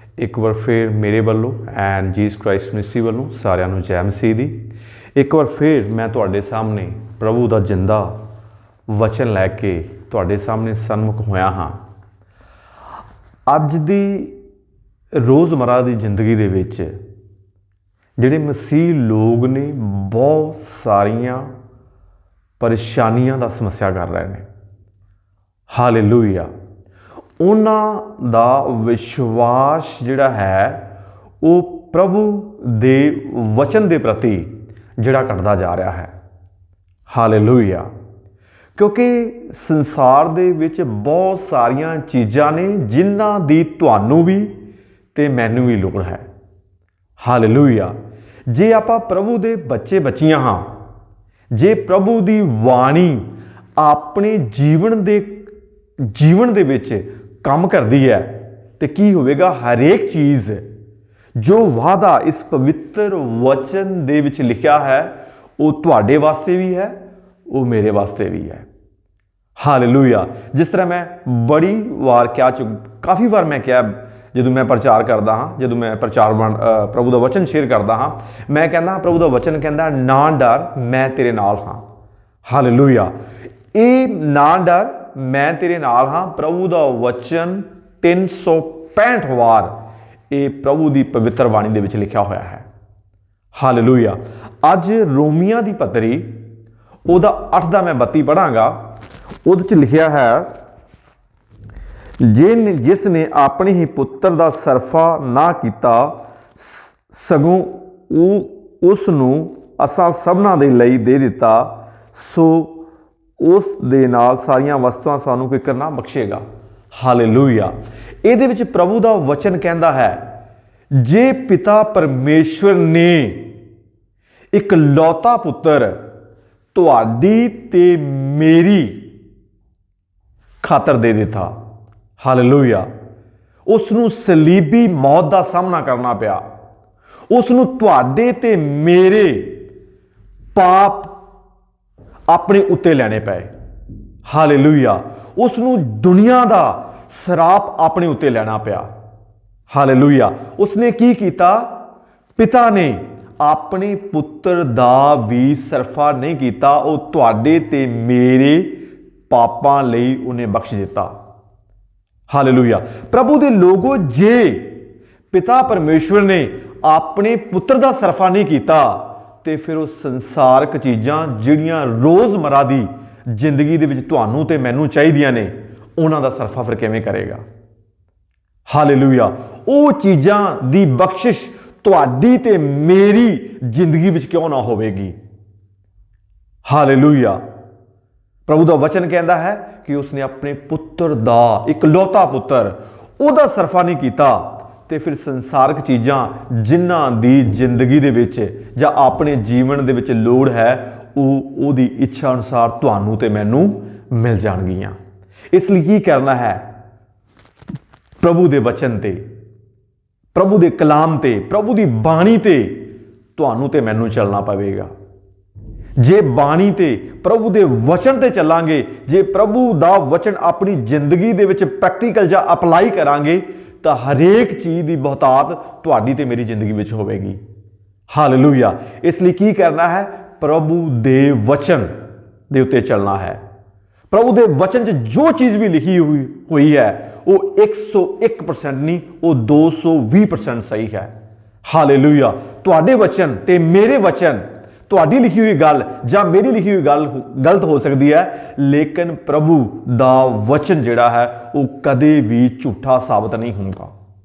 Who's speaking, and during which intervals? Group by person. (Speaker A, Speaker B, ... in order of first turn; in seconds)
Speaker A: 0.2-4.5, 5.2-8.1, 8.9-11.8, 13.5-14.4, 15.2-16.9, 18.2-21.5, 22.6-24.4, 25.7-26.5, 27.4-30.9, 31.4-36.1, 37.1-37.9, 38.8-44.5, 45.1-46.2, 47.2-47.9, 48.5-50.7, 51.5-55.5, 56.1-60.6, 61.4-67.0, 67.5-68.7, 69.6-81.8, 82.4-83.1, 83.7-89.7, 90.3-92.6, 93.5-96.3, 97.1-98.8, 99.5-100.5, 102.2-112.8, 113.4-120.2, 120.9-123.5, 124.5-126.0, 126.7-129.1, 130.6-131.5, 132.2-132.8, 133.7-136.4, 137.3-139.6, 140.5-141.1, 142.3-143.5, 144.2-148.9, 149.7-151.7, 152.3-158.8, 159.3-161.1, 162.3-164.8, 165.3-177.4, 178.7-185.2, 186.6-187.4, 188.4-204.9, 205.5-206.6, 208.2-209.2, 210.3-214.9, 216.0-227.4, 228.1-231.9, 232.5-233.4, 234.1-241.1, 241.6-253.9